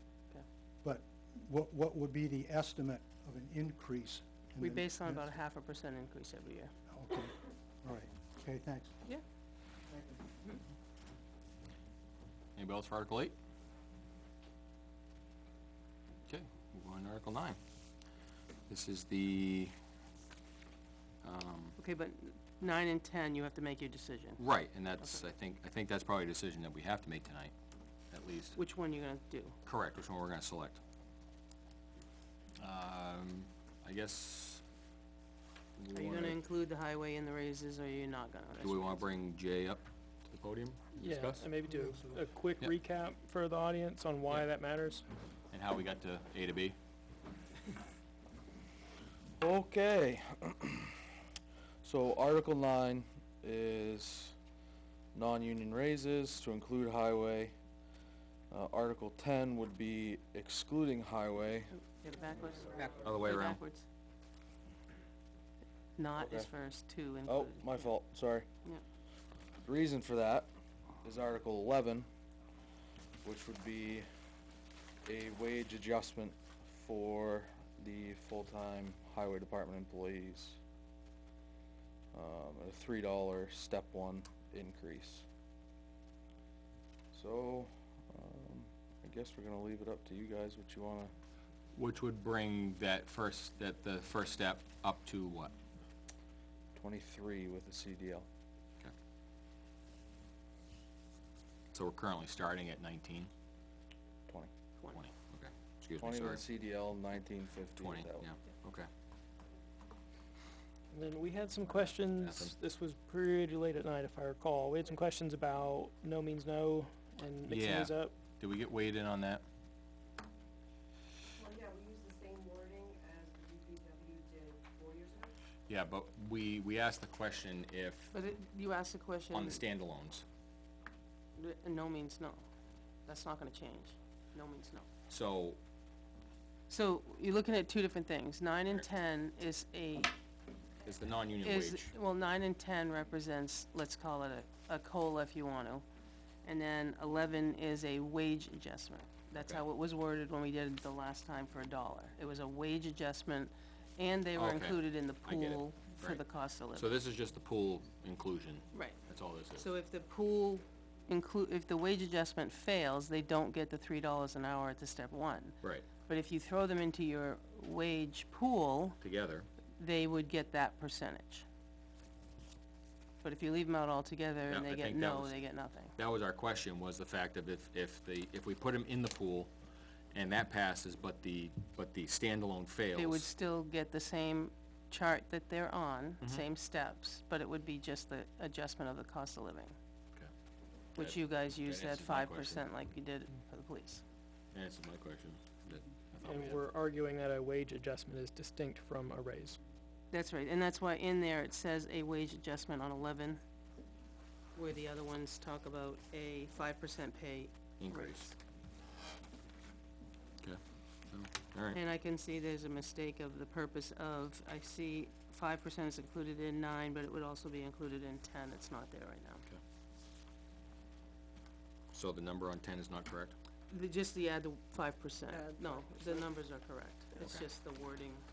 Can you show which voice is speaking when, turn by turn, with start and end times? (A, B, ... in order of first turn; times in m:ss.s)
0:00.8-0:05.4 A
0:04.6-0:06.7 B
0:06.9-0:08.9 A
0:09.9-0:10.2 A
0:12.6-0:13.3 C
0:16.3-0:17.6 C
0:18.7-0:19.7 C
0:21.2-0:21.8 C
0:21.8-0:24.4 B
0:24.4-0:27.5 C
0:28.1-0:28.6 C
0:28.6-0:29.6 B
0:29.6-0:30.8 C
0:32.6-0:34.6 C
0:35.8-0:36.4 C
0:35.9-0:39.1 B
0:38.6-0:41.5 C
0:41.0-0:45.0 D
0:41.6-0:42.2 A
0:45.5-0:46.8 C
0:49.4-0:51.1 E
0:51.8-0:54.4 E
0:55.1-0:57.5 E
0:58.5-1:01.7 E
1:01.9-1:03.8 B
1:02.7-1:03.6 C
1:06.0-1:07.9 B
1:06.2-1:06.5 E
1:07.2-1:08.5 E
1:09.6-1:10.5 E
1:11.0-1:12.1 E
1:13.2-1:14.1 E
1:15.0-1:20.6 E
1:22.1-1:25.2 E
1:27.1-1:31.1 E
1:31.7-1:35.5 C
1:36.7-1:38.3 E
1:41.7-1:43.3 C
1:44.9-1:46.4 C
1:46.0-1:48.3 E
1:47.8-1:48.9 C
1:50.9-1:58.2 D
1:52.2-1:52.5 C
1:57.4-1:59.4 C
2:01.4-2:05.2 F
2:05.7-2:08.1 C
2:08.1-2:09.6 B
2:09.3-2:10.2 C
2:11.4-2:12.4 B
2:13.0-2:14.9 B
2:15.1-2:15.6 C
2:16.7-2:20.1 B
2:20.8-2:21.9 C
2:21.4-2:25.8 B
2:26.4-2:37.0 B
2:29.3-2:29.6 C
2:34.3-2:36.2 C
2:36.7-2:39.7 C
2:38.7-2:39.0 B
2:39.5-2:49.0 B
2:45.6-2:45.9 C
2:49.0-2:49.5 C
2:49.8-2:51.4 B
2:53.2-2:55.9 B
2:54.5-2:55.4 C
2:56.0-2:59.5 C
3:00.1-3:03.3 C
3:02.9-3:09.8 B
3:10.9-3:14.0 B
3:11.0-3:12.7 C
3:14.5-3:16.6 C
3:16.2-3:19.6 D
3:20.1-3:23.4 B
3:24.5-3:28.3 B
3:27.8-3:28.3 C
3:31.1-3:31.8 C
3:31.7-3:39.4 B
3:41.9-3:43.4 C
3:43.7-3:48.2 B
3:47.2-3:47.4 C